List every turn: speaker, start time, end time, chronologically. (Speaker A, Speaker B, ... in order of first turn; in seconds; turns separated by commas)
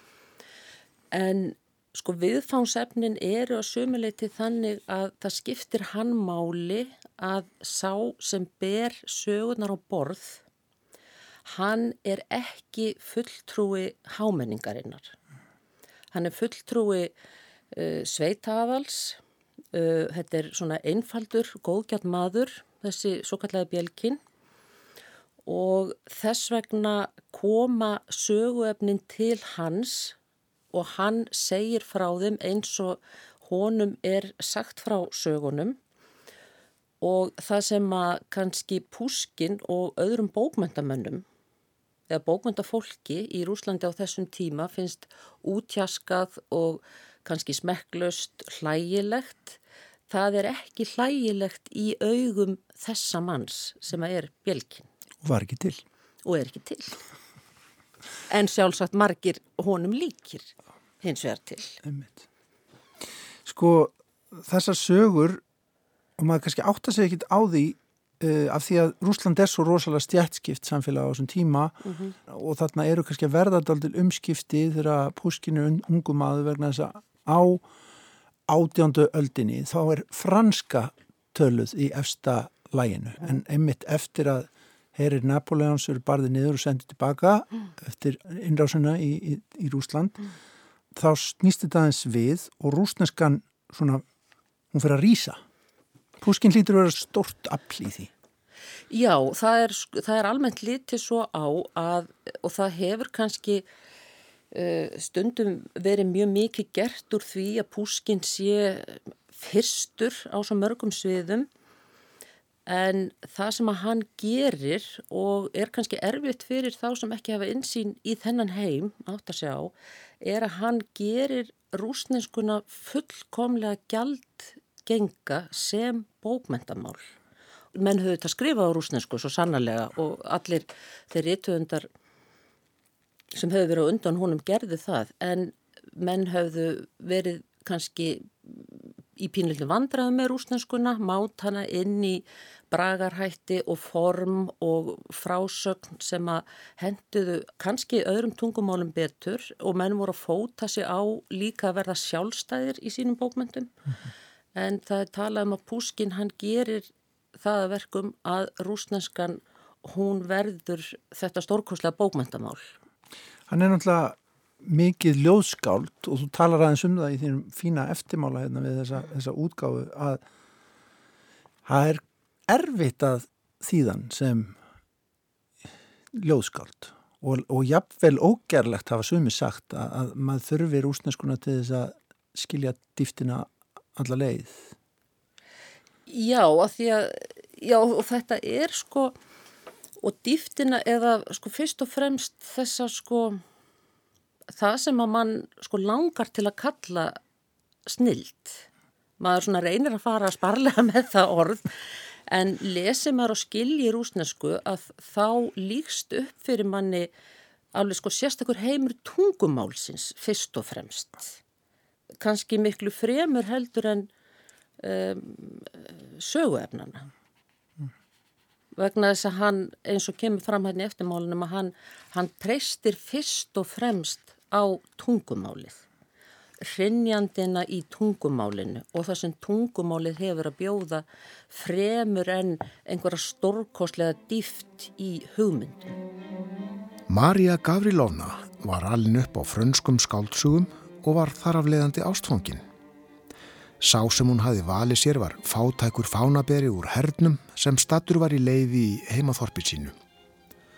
Speaker A: 1.1-10.4, Speaker A: 11.5-15.1, Speaker A: 16.1-17.1, Speaker A: 17.7-19.2, Speaker A: 19.7-24.2, Speaker A: 25.4-30.2, Speaker A: 30.7-35.8, Speaker A: 37.0-41.2, Speaker A: 42.1-49.6, Speaker A: 50.1-54.9, Speaker B: 55.2-55.8, Speaker A: 56.2-57.0, Speaker A: 58.3-61.8, Speaker B: 61.8-62.3, Speaker B: 63.5-65.4, Speaker B: 66.2-71.8, Speaker A: 71.8-72.1, Speaker B: 72.3-77.7, Speaker B: 78.5-90.2, Speaker B: 91.0-94.0, Speaker B: 94.7-95.4, Speaker B: 96.2-98.1, Speaker A: 98.9-103.7, Speaker A: 104.5-111.5, Speaker A: 112.7-127.1, Speaker A: 127.7-131.9, Speaker A: 133.3-153.7, Speaker A: 154.6-162.7, Speaker B: 163.5-170.2, Speaker B: 171.7-174.6, Speaker B: 176.1-184.7, Speaker A: 186.1-189.2, Speaker A: 190.0-193.4, Speaker A: 194.5-197.2, Speaker A: 197.9-198.7, Speaker A: 199.2-207.1, Speaker A: 207.8-211.4, Speaker A: 212.2-214.1, Speaker A: 214.8-217.1, Speaker A: 218.8-225.8, Speaker A: 226.6-235.9, Speaker C: 237.1-242.6, Speaker C: 243.8-249.9